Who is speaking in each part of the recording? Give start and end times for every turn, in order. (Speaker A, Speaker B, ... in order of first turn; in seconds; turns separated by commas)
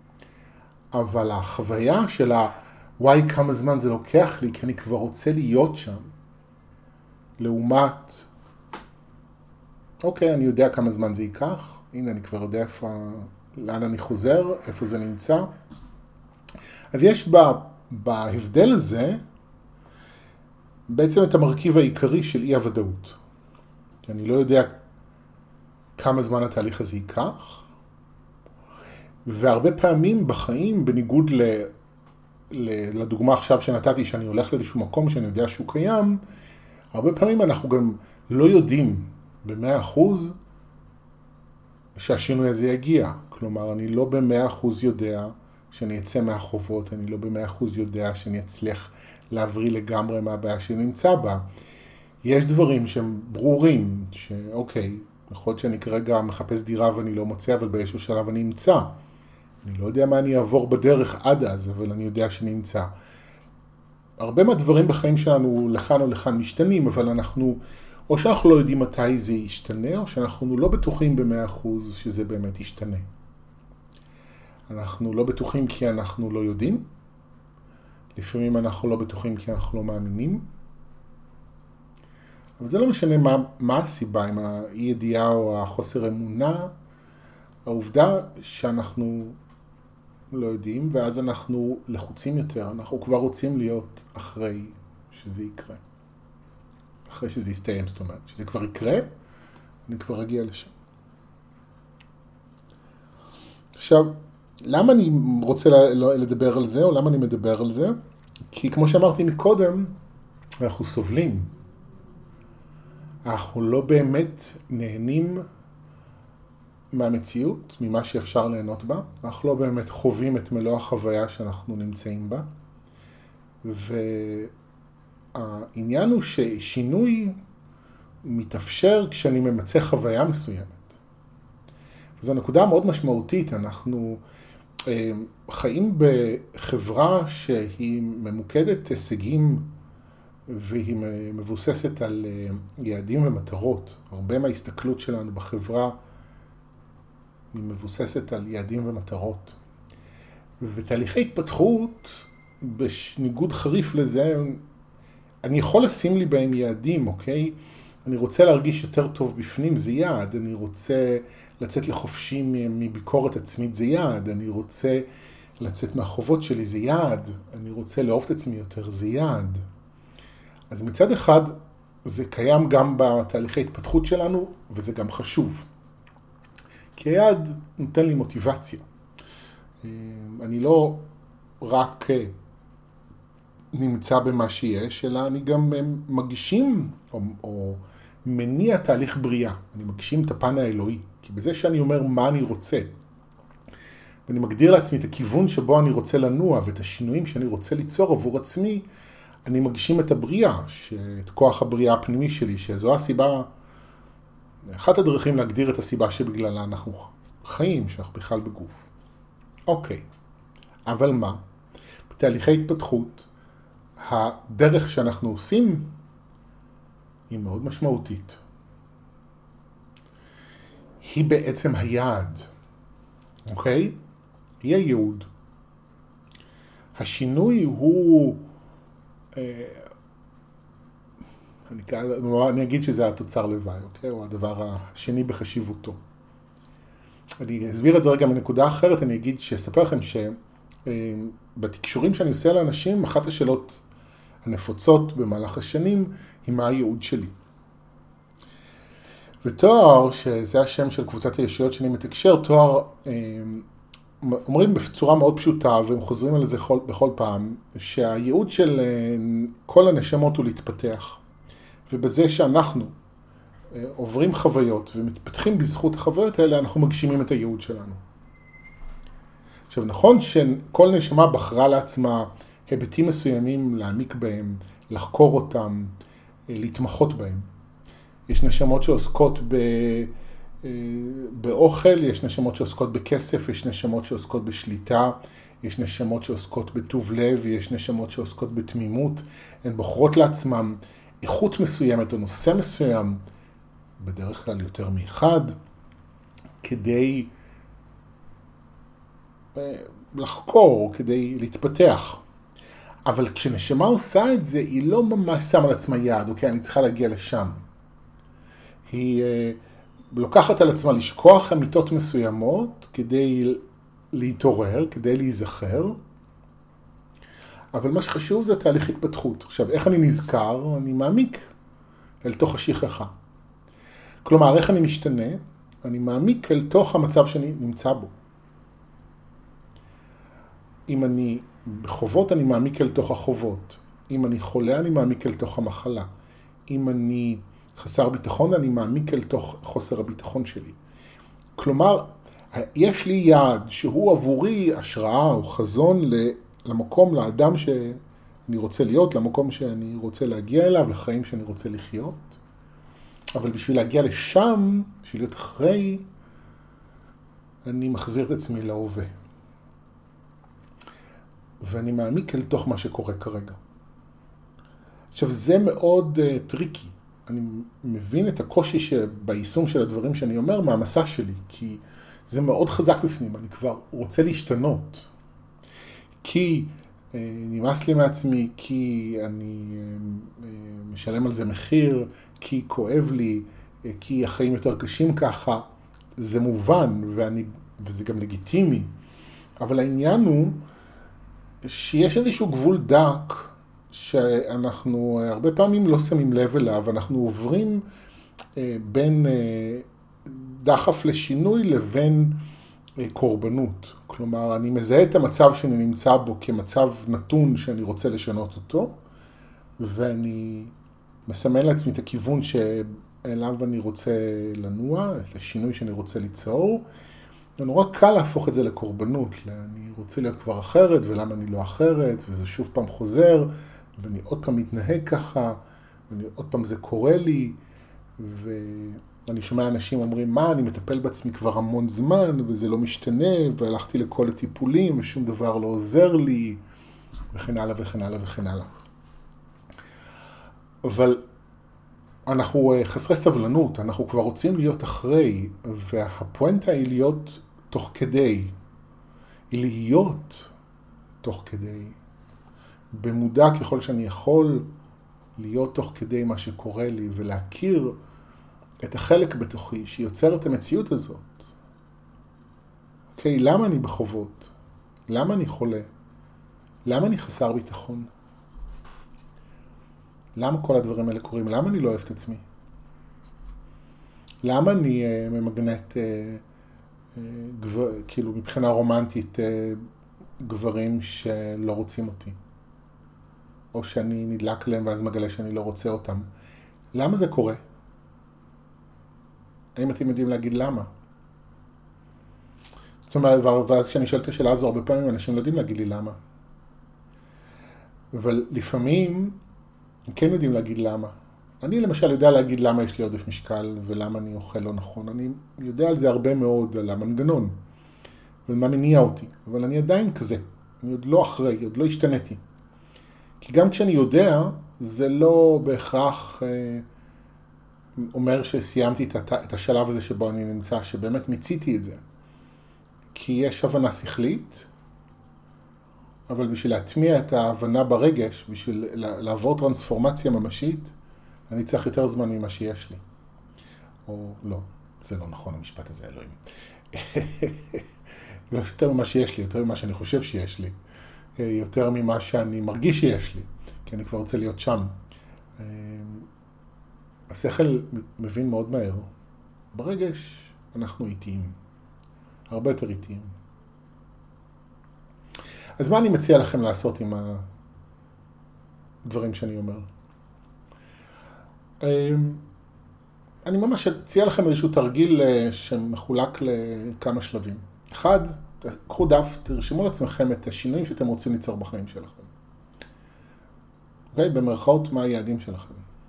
Speaker A: 0.9-6.1, Speaker A: 7.4-8.3, Speaker A: 10.0-15.5, Speaker A: 16.9-19.2, Speaker A: 20.9-23.2, Speaker A: 24.0-24.8, Speaker A: 26.0-27.6, Speaker A: 29.2-31.7, Speaker A: 32.5-36.2, Speaker A: 36.9-40.4, Speaker A: 42.0-51.5, Speaker A: 52.2-58.9, Speaker A: 59.6-62.9, Speaker A: 64.2-73.1, Speaker A: 74.7-76.8, Speaker A: 78.2-80.5, Speaker A: 82.6-86.7, Speaker A: 87.6-89.4, Speaker A: 90.3-95.8, Speaker A: 97.1-99.1, Speaker A: 99.9-100.7, Speaker A: 103.7-107.9, Speaker A: 108.5-109.9, Speaker A: 110.6-111.5, Speaker A: 113.2-115.4, Speaker A: 116.9-122.5, Speaker A: 123.6-124.5, Speaker A: 125.3-127.4, Speaker A: 128.2-130.9, Speaker A: 132.2-134.2, Speaker A: 134.9-139.7, Speaker A: 140.5-145.9, Speaker A: 147.5-149.6, Speaker A: 150.6-154.6, Speaker A: 155.4-165.1, Speaker A: 165.6-169.6, Speaker A: 170.7-175.7, Speaker A: 176.9-178.8, Speaker A: 179.8-181.1, Speaker A: 181.6-182.3, Speaker A: 183.7-192.9, Speaker A: 194.3-198.8, Speaker A: 199.4-203.5, Speaker A: 204.7-208.8, Speaker A: 209.7-210.1, Speaker A: 210.9-211.4, Speaker A: 212.1-213.3, Speaker A: 214.0-215.9, Speaker A: 217.3-218.4, Speaker A: 221.0-222.5, Speaker A: 223.5-224.0, Speaker A: 224.6-225.3, Speaker A: 226.9-228.4, Speaker A: 229.3-229.9, Speaker A: 231.7-236.0, Speaker A: 237.4-243.8, Speaker A: 244.4-247.3, Speaker A: 249.4-253.7, Speaker A: 254.2-261.2, Speaker A: 261.9-262.9, Speaker A: 263.7-268.0, Speaker A: 269.7-275.9, Speaker A: 276.5-277.5, Speaker A: 278.3-293.2, Speaker A: 294.0-295.5, Speaker A: 296.6-297.3, Speaker A: 299.5-302.2, Speaker A: 303.1-307.6, Speaker A: 308.9-309.6, Speaker A: 310.1-316.0, Speaker A: 317.7-321.4, Speaker A: 322.2-323.1, Speaker A: 324.2-328.1, Speaker A: 330.9-336.1, Speaker A: 336.7-340.8, Speaker A: 341.6-352.4, Speaker A: 353.3-356.1, Speaker A: 357.6-359.1, Speaker A: 361.6-363.6, Speaker A: 365.1-375.1, Speaker A: 376.2-385.6, Speaker A: 386.2-388.9, Speaker A: 389.6-390.6, Speaker A: 391.6-397.8, Speaker A: 398.6-402.4, Speaker A: 403.0-409.0, Speaker A: 409.8-410.7, Speaker A: 411.3-416.9, Speaker A: 417.6-427.6, Speaker A: 428.2-436.6, Speaker A: 437.3-438.7, Speaker A: 440.8-441.2, Speaker A: 442.2-448.5, Speaker A: 449.5-450.5, Speaker A: 451.2-452.0, Speaker A: 452.9-454.7, Speaker A: 455.4-457.9, Speaker A: 458.8-461.5, Speaker A: 463.1-464.5, Speaker A: 465.1-465.9, Speaker A: 466.8-468.1, Speaker A: 470.3-472.4, Speaker A: 474.4-476.4, Speaker A: 477.1-479.9, Speaker A: 480.4-482.4, Speaker A: 483.7-486.3, Speaker A: 486.9-487.6, Speaker A: 489.8-490.9, Speaker A: 493.1-496.2, Speaker A: 498.1-499.4, Speaker A: 500.1-507.5, Speaker A: 508.5-512.4, Speaker A: 513.4-516.8, Speaker A: 518.0-522.0, Speaker A: 523.1-524.7, Speaker A: 526.3-530.9, Speaker A: 531.5-533.0, Speaker A: 534.1-536.4, Speaker A: 536.9-537.9, Speaker A: 538.5-540.7, Speaker A: 541.4-545.0, Speaker A: 545.6-546.3, Speaker A: 547.3-549.1, Speaker A: 549.7-551.5, Speaker A: 552.5-553.3, Speaker A: 555.8-557.5, Speaker A: 559.0-559.9, Speaker A: 561.8-562.4, Speaker A: 563.4-572.3, Speaker A: 574.1-575.8